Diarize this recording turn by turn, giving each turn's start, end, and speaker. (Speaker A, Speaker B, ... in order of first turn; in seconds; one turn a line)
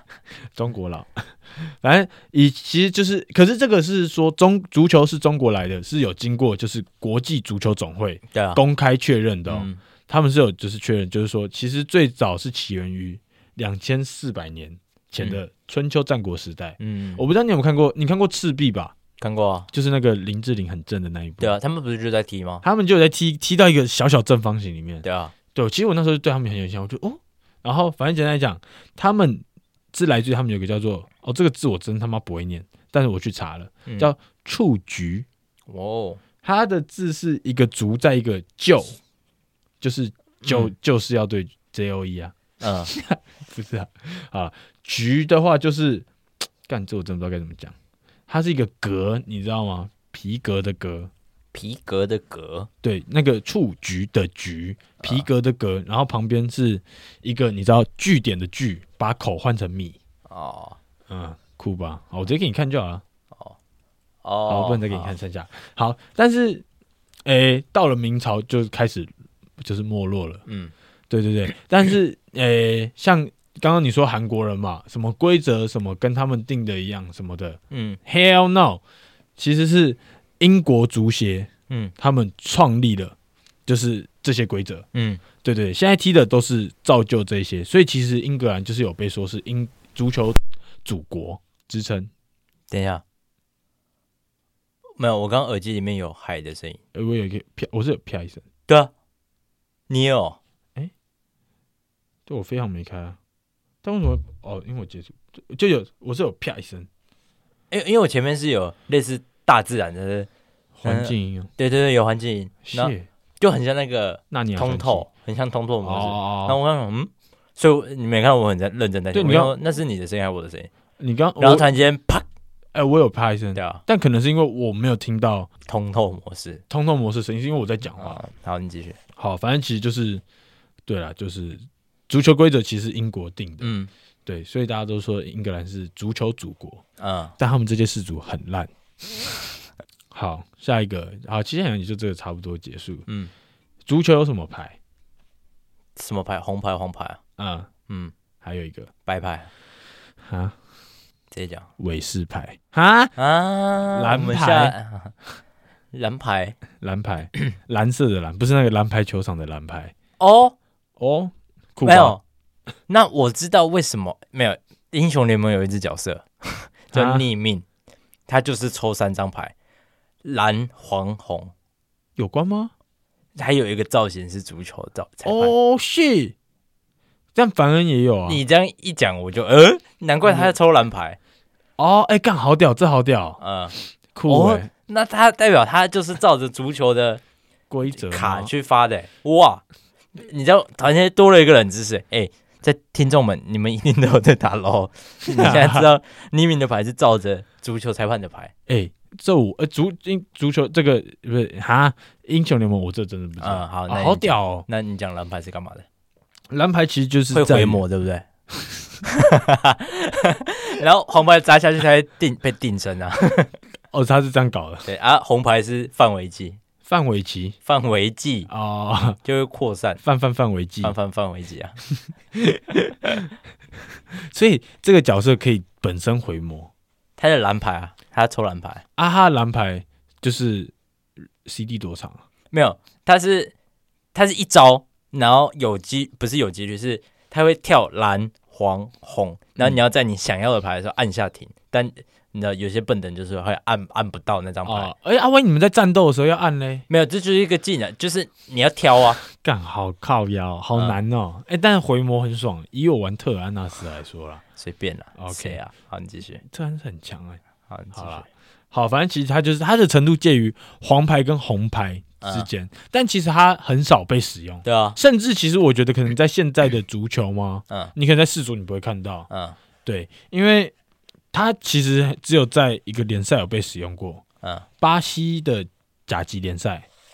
Speaker A: 0.5-18.9
Speaker B: 8.3-8.6
Speaker B: 9.5-9.8
Speaker B: 16.8-17.2
Speaker B: 19.2-19.7
Speaker A: 19.7-21.6
Speaker B: 21.4-22.6
Speaker A: 22.6-35.3
Speaker B: 25.0-25.3
Speaker B: 33.9-34.1
Speaker B: 35.7-36.2
Speaker A: 36.4-39.0
Speaker A: 39.8-42.4
Speaker B: 40.5-40.7
Speaker B: 42.6-42.9
Speaker A: 42.9-46.1
Speaker A: 46.7-47.8
Speaker A: 48.3-51.1
Speaker B: 51.5-52.7
Speaker A: 52.8-60.0
Speaker B: 55.0-55.3
Speaker B: 60.3-60.8
Speaker A: 61.1-63.0
Speaker B: 64.2-65.1
Speaker A: 64.5-66.7
Speaker A: 67.3-69.1
Speaker A: 69.6-70.4
Speaker B: 70.5-70.7
Speaker A: 71.1-78.8
Speaker B: 77.7-78.0
Speaker A: 79.4-83.2
Speaker B: 81.7-81.9
Speaker A: 83.7-84.8
Speaker B: 84.9-85.2
Speaker A: 85.4-92.1
Speaker B: 92.7-93.0
Speaker B: 95.0-96.8
Speaker A: 96.9-98.5
Speaker B: 99.9-100.4
Speaker A: 102.3-103.2
Speaker A: 103.8-106.9
Speaker B: 107.7-110.3
Speaker A: 110.8-111.5
Speaker B: 110.8-120.7
Speaker A: 112.7-113.1
Speaker A: 114.3-115.1
Speaker A: 115.8-116.6
Speaker A: 119.1-119.6
Speaker A: 121.0-121.7
Speaker B: 121.4-122.3
Speaker A: 122.7-125.5
Speaker B: 123.5-123.8
Speaker B: 125.7-126.6
Speaker A: 126.7-128.2
Speaker B: 128.0-129.0
Speaker A: 129.2-130.2
Speaker A: 130.9-133.7
Speaker B: 133.6-133.9
Speaker A: 134.3-136.8
Speaker B: 137.0-137.3
Speaker A: 137.4-138.7
Speaker A: 140.1-143.1
Speaker A: 143.9-144.8
Speaker B: 146.0-147.2
Speaker A: 147.4-147.7
Speaker B: 147.9-148.1
Speaker A: 148.4-148.9
Speaker B: 149.1-149.5
Speaker A: 150.3-150.6
Speaker B: 151.3-151.7
Speaker A: 151.8-153.1
Speaker B: 153.2-155.1
Speaker A: 153.9-154.8
Speaker B: 155.9-156.6
Speaker A: 156.8-159.9
Speaker B: 160.2-160.6
Speaker A: 161.0-162.2
Speaker B: 161.8-162.2
Speaker B: 162.9-167.7
Speaker A: 166.9-167.2
Speaker B: 168.3-169.5
Speaker B: 170.2-171.5
Speaker A: 172.2-172.7
Speaker B: 173.3-175.5
Speaker A: 175.2-176.3
Speaker A: 177.3-178.4
Speaker B: 178.3-181.2
Speaker A: 180.2-180.5
Speaker A: 181.8-183.4
Speaker B: 183.4-183.8
Speaker A: 184.1-184.7
Speaker B: 184.3-187.2
Speaker A: 187.7-188.5
Speaker B: 187.9-189.6
Speaker B: 190.1-198.5
Speaker A: 195.2-195.9
Speaker A: 198.7-204.7
Speaker B: 203.4-205.9
Speaker A: 206.5-207.8
Speaker B: 207.3-208.2
Speaker A: 208.5-208.9
Speaker B: 209.1-213.5
Speaker A: 213.9-214.9
Speaker B: 214.9-216.6
Speaker A: 216.8-217.6
Speaker B: 217.7-218.5
Speaker A: 218.5-219.2
Speaker B: 219.2-220.0
Speaker A: 220.0-220.9
Speaker B: 220.8-221.8
Speaker A: 222.3-223.3
Speaker A: 224.1-226.7
Speaker B: 227.2-228.8
Speaker A: 229.0-230.7
Speaker A: 231.4-232.2
Speaker B: 232.5-233.5
Speaker B: 234.1-244.9
Speaker A: 244.7-246.9
Speaker B: 246.9-249.2
Speaker A: 249.3-254.4
Speaker B: 254.6-256.4
Speaker A: 255.2-255.6
Speaker A: 256.4-257.4
Speaker B: 257.7-258.3
Speaker A: 257.9-269.3
Speaker B: 262.2-262.5
Speaker B: 264.6-265.0
Speaker B: 269.3-269.6
Speaker A: 269.9-270.7
Speaker A: 271.3-274.2
Speaker A: 274.8-276.9